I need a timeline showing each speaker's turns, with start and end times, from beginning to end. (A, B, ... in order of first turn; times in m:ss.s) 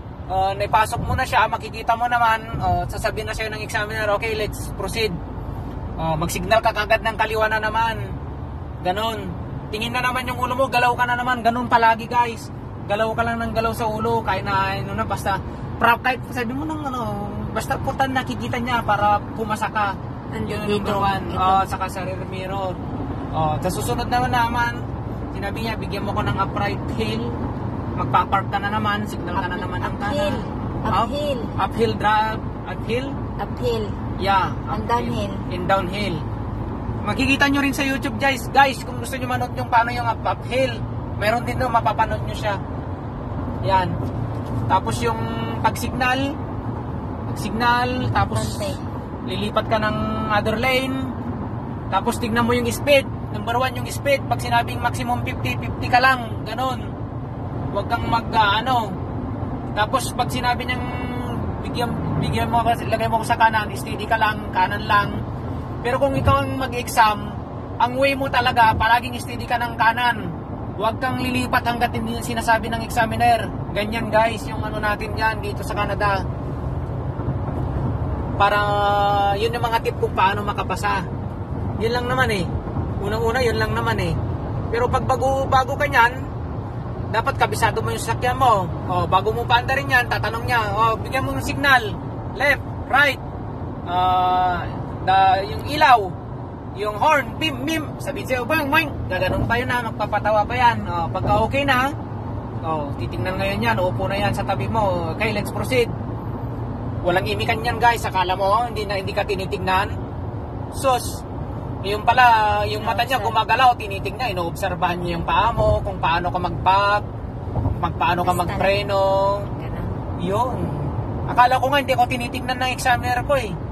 0:00.3-0:05.2 A
0:06.0-0:08.2 A
0:08.8-0:22.8 A
0:20.3-0:21.7 B
0:23.3-0:27.4 A
0:28.0-0:33.2 A
0:29.4-0:31.5 B
0:33.4-0:34.0 B
0:34.2-0:36.2 A
0:34.7-0:35.4 B
0:37.0-0:42.6 A
0:43.6-0:43.9 A
0:44.7-0:46.4 A
0:47.3-0:51.1 A
0:48.3-0:48.8 B
0:51.9-0:56.9 A
0:57.7-0:59.0 A
0:59.7-1:05.2 A
1:05.8-1:16.2 A
1:18.4-1:21.1 A
1:21.8-1:22.5 A
1:23.0-1:24.2 A
1:24.7-1:26.3 A
1:27.1-1:33.2 A
1:33.9-1:36.1 A
1:36.8-1:41.9 A
1:42.6-1:45.9 A
1:47.0-1:49.9 A
1:50.7-1:51.2 A
1:51.8-1:57.0 A
1:52.8-1:53.4 B
1:57.7-1:59.5 A
1:58.2-1:58.8 B
1:59.5-1:59.9 B
2:00.2-2:03.6 A